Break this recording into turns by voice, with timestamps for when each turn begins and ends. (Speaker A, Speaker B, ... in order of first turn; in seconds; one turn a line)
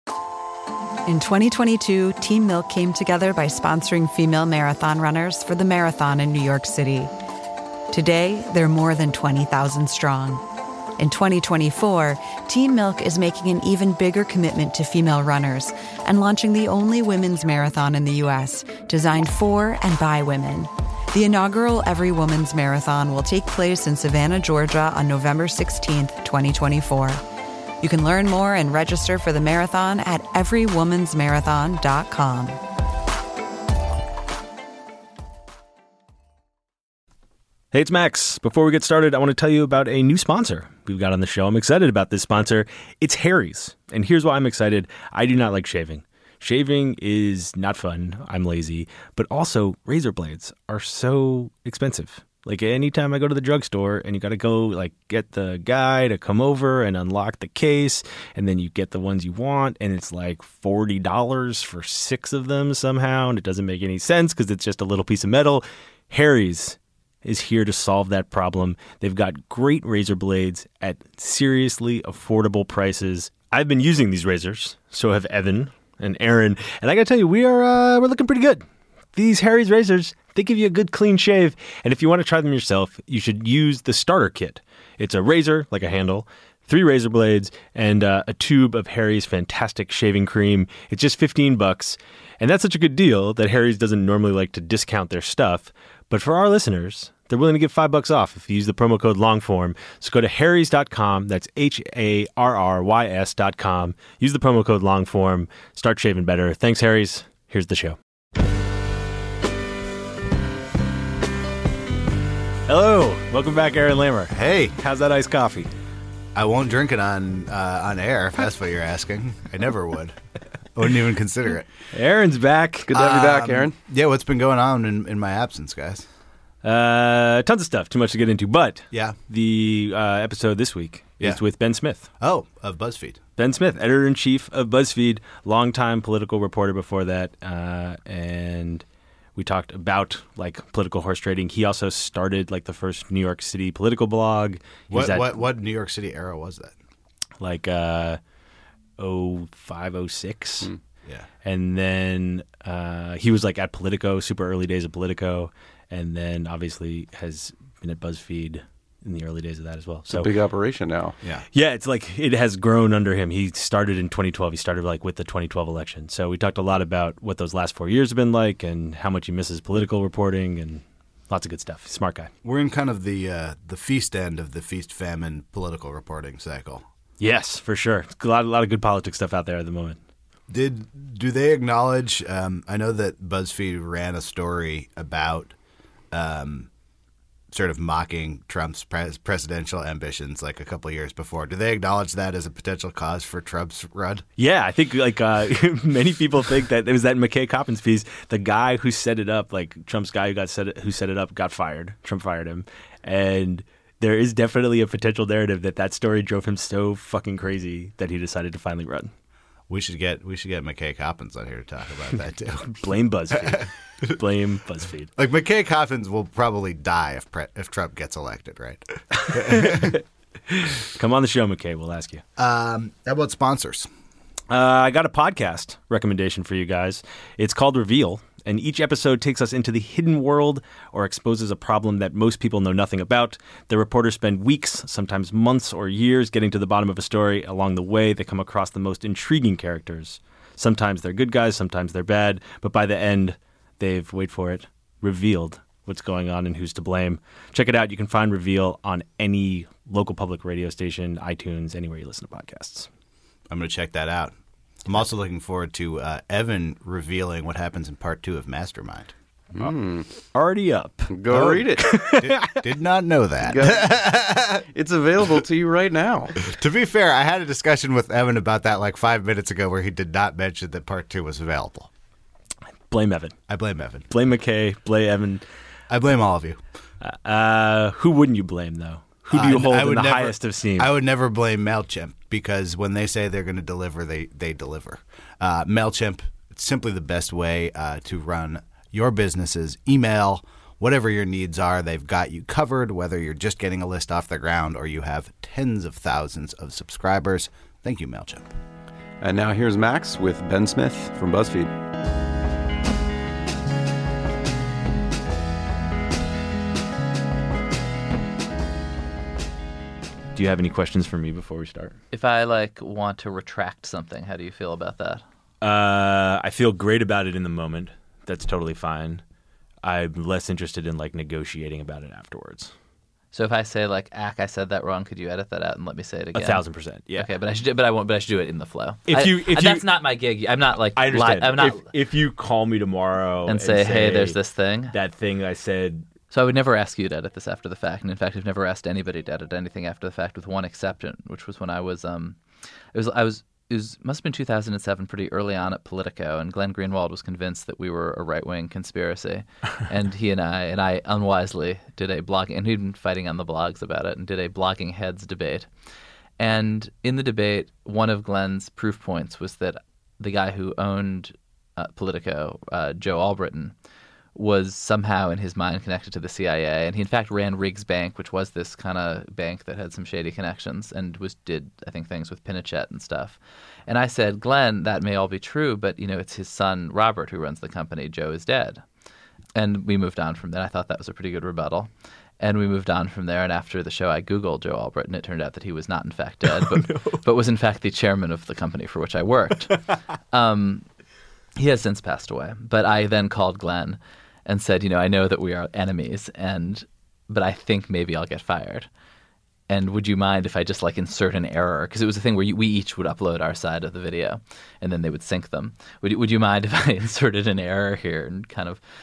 Speaker A: 1.1-7.1
Speaker A: 7.9-10.4
Speaker A: 11.0-27.2
Speaker A: 27.8-32.6
Speaker B: 37.7-108.0
Speaker B: 112.7-115.7
Speaker C: 114.3-114.8
Speaker C: 116.3-120.2
Speaker C: 120.7-121.7
Speaker B: 121.9-123.0
Speaker D: 122.9-123.7
Speaker C: 122.9-126.0
Speaker B: 126.6-132.1
Speaker C: 128.9-129.2
Speaker C: 132.2-133.2
Speaker B: 133.4-138.8
Speaker B: 139.3-145.4
Speaker C: 144.9-146.7
Speaker B: 147.4-148.2
Speaker B: 149.0-150.7
Speaker B: 151.4-160.3
Speaker D: 160.1-161.2
Speaker B: 161.5-172.3
Speaker C: 172.4-176.8
Speaker B: 177.2-180.0
Speaker C: 180.5-185.5
Speaker C: 186.1-186.7
Speaker C: 187.5-194.2
Speaker B: 194.4-209.1
Speaker C: 209.7-212.7
Speaker B: 212.6-215.1
Speaker C: 215.2-220.0
Speaker B: 219.2-222.2
Speaker C: 222.4-223.9
Speaker B: 224.5-252.9
Speaker C: 253.5-259.1
Speaker D: 259.5-260.1
Speaker B: 260.3-262.6
Speaker D: 261.1-261.9
Speaker C: 262.1-264.6
Speaker D: 263.4-263.9
Speaker D: 264.7-266.3
Speaker C: 266.4-271.9
Speaker B: 272.9-273.5
Speaker C: 273.5-274.1
Speaker B: 274.1-275.4
Speaker C: 275.9-276.6
Speaker B: 277.0-280.9
Speaker C: 279.3-298.4
Speaker D: 299.2-301.7
Speaker B: 310.3-312.0
Speaker E: 312.1-315.2
Speaker B: 315.6-319.2
Speaker B: 319.8-322.7
Speaker E: 323.3-326.6
Speaker B: 326.3-327.3
Speaker E: 327.1-331.9
Speaker B: 329.1-329.9
Speaker B: 330.9-334.4
Speaker E: 333.5-334.9
Speaker B: 334.9-336.1
Speaker E: 336.3-342.4
Speaker E: 342.9-355.7
Speaker E: 356.4-363.7
Speaker E: 364.3-378.8
Speaker E: 379.6-390.9
Speaker B: 386.8-387.2
Speaker E: 391.6-398.9
Speaker E: 399.7-408.8